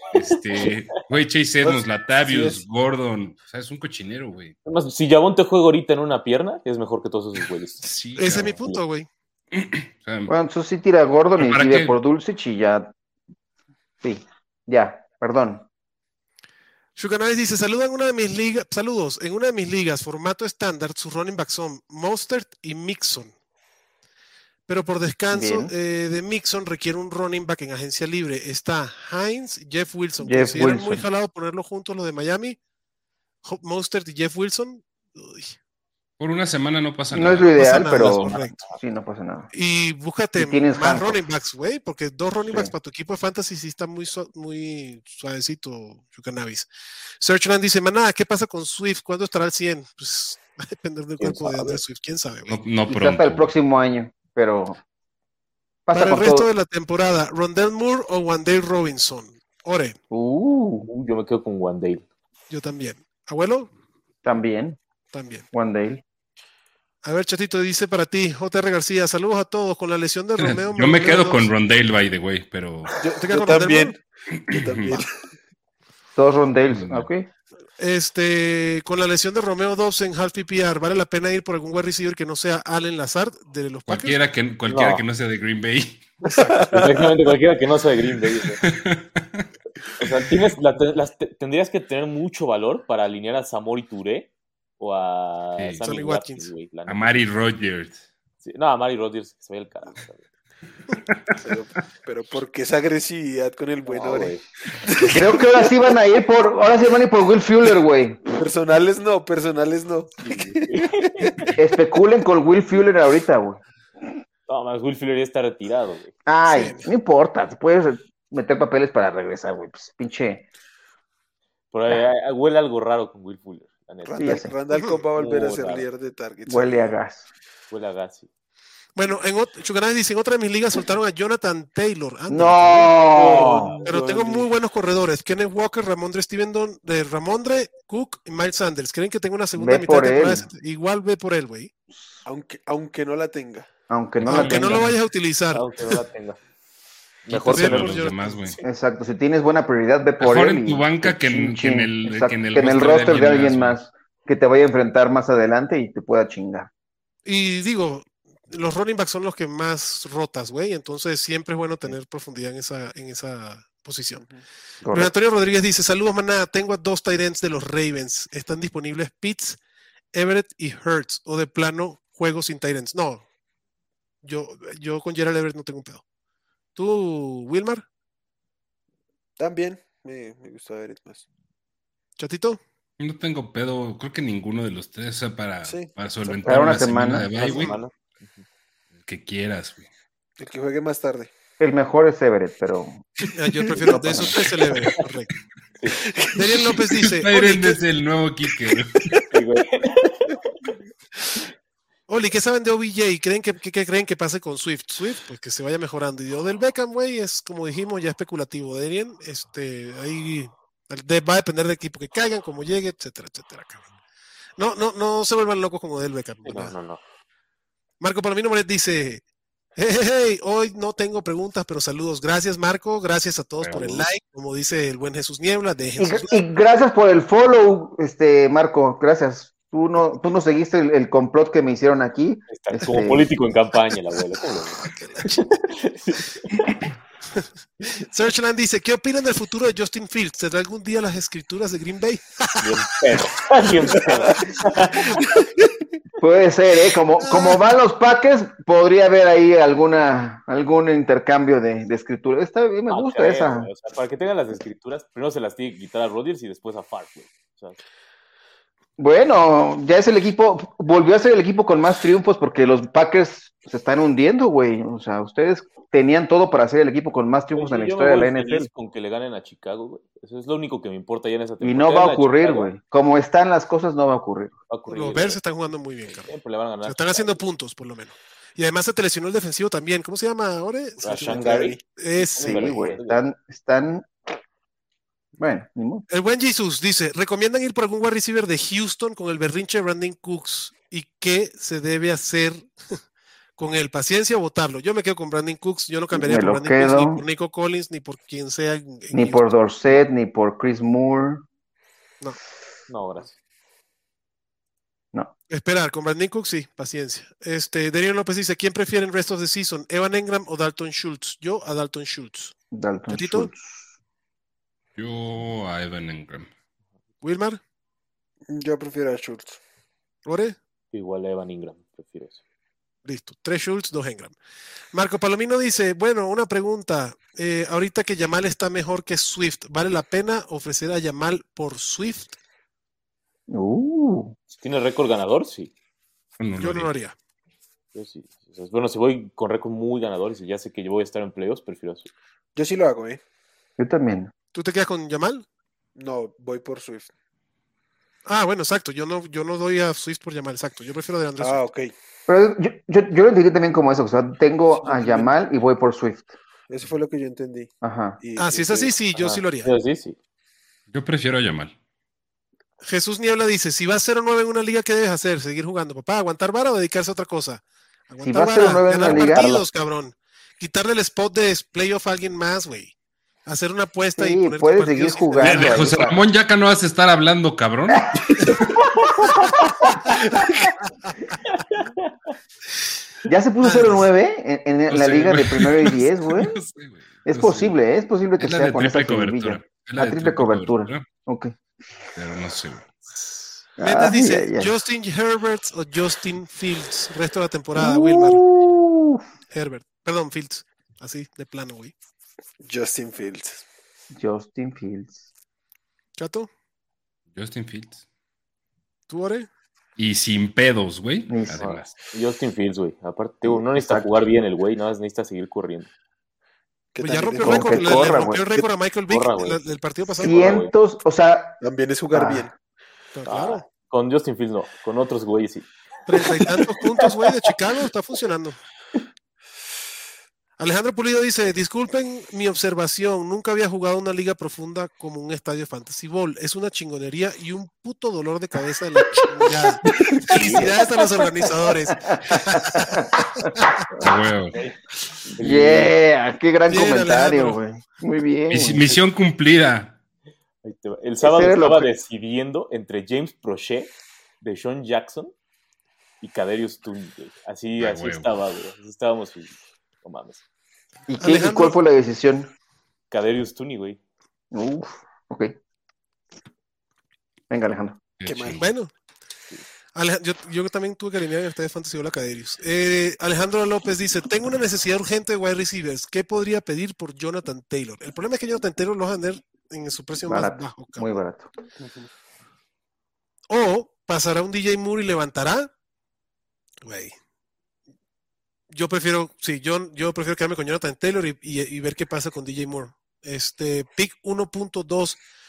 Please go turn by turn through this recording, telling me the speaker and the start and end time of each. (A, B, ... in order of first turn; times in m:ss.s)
0:00.1-0:04.5 A
0:00.1-0:01.0 B
0:01.6-0:02.6 C
0:04.6-0:07.8 B
0:07.8-0:08.6 A
0:08.2-0:09.1 D
0:09.5-0:10.3 A
0:10.3-0:12.9 E
0:11.4-0:12.0 A
0:14.0-0:15.7 E
0:17.0-0:23.3 D
0:24.7-0:32.6 D
0:25.3-0:25.7 E
0:30.2-0:31.0 E
0:33.4-0:35.5 D
0:36.2-0:37.5 A
0:37.1-0:39.5 E
0:37.6-0:38.5 D
0:37.9-0:38.8 B
0:39.5-0:46.7 D
0:40.4-0:41.2 E
0:47.2-0:52.6 D
0:51.2-0:51.8 B
0:52.5-0:53.5 A
0:52.9-0:54.8 E
0:55.8-0:56.5 E
0:55.9-1:00.0 D
1:00.1-1:00.9 E
1:00.9-1:02.0 B
1:02.5-1:03.7 D
1:04.2-1:04.8 E
1:05.1-1:05.5 D
1:05.5-1:06.0 E
1:07.0-1:11.5 D
1:10.4-1:13.0 A
1:13.0-1:15.1 C
1:13.2-1:13.9 D
1:14.4-1:15.0 A
1:16.2-1:17.3 E
1:16.7-1:17.1 A
1:17.8-1:24.2 D
1:23.9-1:26.1 A
1:24.7-1:25.0 B
1:26.2-1:27.1 C
1:26.3-1:26.6 D
1:26.7-1:28.6 B
1:28.6-1:29.4 A
1:30.0-1:37.2 B
1:35.8-1:36.5 D
1:36.9-1:38.0 A
1:38.4-1:40.2 B
1:40.9-1:41.4 A
1:41.4-1:45.7 C
1:43.8-1:44.4 B
1:45.1-1:48.2 E
1:48.3-1:51.5 C
1:50.2-1:51.5 B
1:51.6-1:53.6 E
1:54.5-1:56.1 B
1:56.2-2:00.4 E
1:56.4-1:56.8 D
2:01.7-2:04.5 B
2:04.0-2:06.9 C
2:04.2-2:04.5 E
2:04.7-2:05.0 D
2:05.1-2:05.9 B
2:06.5-2:07.2 E
2:07.7-2:08.3 B
2:09.0-2:13.0 D
2:12.3-2:13.9 E
2:13.1-2:13.9 B
2:13.2-2:14.4 C
2:13.8-2:21.7 D
2:19.5-2:20.4 E
2:21.9-2:22.2 E
2:22.2-2:23.7 C
2:23.9-2:24.8 E
2:24.2-2:24.9 A
2:24.2-2:25.6 D
2:25.5-2:26.4 B
2:27.2-2:28.6 B
2:27.3-2:28.6 A
2:27.5-2:28.4 D
2:28.6-2:36.7 E
2:30.2-2:33.8 A
2:37.2-2:44.2 D
2:44.2-2:44.4 C
2:44.8-2:45.1 E
2:44.9-2:49.6 D
2:50.1-2:53.2 D
2:54.2-2:56.0 D
2:56.7-2:57.8 D
2:59.4-3:01.2 C
3:02.2-3:02.6 D
3:03.0-3:07.8 A
3:05.6-3:06.4 C
3:06.4-3:07.3 E
3:07.3-3:08.4 B
3:09.0-3:09.9 A
3:10.4-3:11.3 C
3:11.6-3:13.0 E
3:13.3-3:15.3 D
3:13.9-3:14.4 E
3:16.0-3:16.7 C
3:16.3-3:17.8 D
3:17.0-3:19.1 A
3:19.3-3:20.4 B
3:22.1-3:33.9 D
3:34.6-3:36.7 D
3:36.4-3:37.0 B
3:38.0-3:39.2 D
3:39.8-3:46.3 D
3:43.6-3:44.0 A
3:46.0-3:53.3 E
3:52.5-3:56.7 B
3:55.0-3:55.4 D
3:57.4-4:02.6 D
4:02.6-4:05.2 B
4:06.2-4:13.7 E
4:07.2-4:07.6 D
4:12.9-4:17.8 B
4:19.0-4:28.7 E
4:27.5-4:32.7 B
4:31.6-4:34.5 E
4:34.7-4:35.4 B
4:34.9-4:36.3 D
4:36.1-4:37.4 B
4:36.8-4:42.8 D
4:41.0-4:43.2 B
4:41.2-4:41.8 C
4:42.4-4:44.1 E
4:45.4-4:46.0 E
4:46.1-4:52.7 D
4:53.6-4:59.5 D
4:56.1-4:57.2 E
4:59.1-5:01.4 E
5:02.9-5:03.3 B
5:05.5-5:12.5 D
5:12.7-5:13.9 E
5:13.1-5:13.5 D
5:15.0-5:16.5 A
5:17.2-5:17.6 D
5:18.5-5:19.6 C
5:20.2-5:20.6 D
5:20.9-5:22.4 B
5:23.0-5:24.4 D
5:24.9-5:32.4 D
5:33.5-5:34.3 E
5:34.5-5:35.7 B
5:36.4-5:36.9 A
5:36.6-5:37.1 D
5:37.9-5:42.1 B
5:42.6-5:43.2 C
5:43.8-5:44.3 E
5:44.5-5:45.4 D
5:46.0-5:47.1 C
5:48.2-5:51.6 D
5:51.4-5:51.9 C
5:52.3-5:56.3 E
5:54.8-5:55.3 C
5:56.7-5:58.9 C
5:57.8-5:58.2 E
5:58.4-5:59.7 D
5:59.1-6:00.2 B
6:00.9-6:01.7 A
6:02.8-6:12.9 D
6:08.2-6:09.5 E
6:09.0-6:09.6 B
6:13.4-6:16.0 D
6:14.2-6:16.2 E
6:15.4-6:18.6 A
6:17.9-6:19.9 E
6:21.5-6:22.1 B
6:23.2-6:26.6 E
6:23.6-6:24.0 D
6:24.9-6:27.7 A
6:27.2-6:31.5 E
6:28.4-6:31.1 A
6:32.1-6:32.9 A
6:33.8-6:34.7 E
6:33.8-6:38.4 D
6:37.8-6:39.2 E
6:39.5-6:41.9 D
6:42.6-6:43.6 C
6:44.1-6:45.2 E
6:46.2-6:46.5 D
6:47.3-6:48.0 A
6:49.1-6:49.5 D
6:50.0-6:51.9 A
6:51.3-6:51.6 E
6:51.6-6:55.9 B
6:53.4-6:54.1 E
6:56.9-6:58.6 C
6:57.0-7:00.6 D
6:57.4-6:58.4 E
6:59.1-6:59.6 B
7:00.2-7:01.6 E
7:00.2-7:00.7 B
7:01.6-7:02.5 C
7:02.1-7:02.5 E
7:03.1-7:03.6 D
7:03.3-7:05.7 B
7:06.0-7:08.6 D
7:06.2-7:07.1 B
7:10.6-7:23.5 D
7:19.9-7:20.7 E
7:20.4-7:20.7 B
7:22.1-7:23.4 E
7:24.0-7:24.6 A
7:25.3-7:25.9 B
7:25.4-7:28.8 E
7:26.7-7:27.6 D
7:28.5-7:30.0 A
7:30.6-7:35.3 B
7:31.2-7:31.9 E
7:36.2-7:40.4 B
7:37.8-7:38.3 A
7:41.1-7:42.5 E
7:41.2-7:41.8 D
7:43.1-7:44.0 B
7:44.5-7:45.5 E
7:47.5-7:48.0 E
7:48.2-7:48.7 A
7:48.3-7:48.6 C
7:48.5-7:48.9 D
7:49.9-8:01.2 D
8:00.2-8:01.5 E
8:01.8-8:02.1 C
8:03.5-8:05.7 D
8:06.8-8:07.1 D
8:08.7-8:15.2 D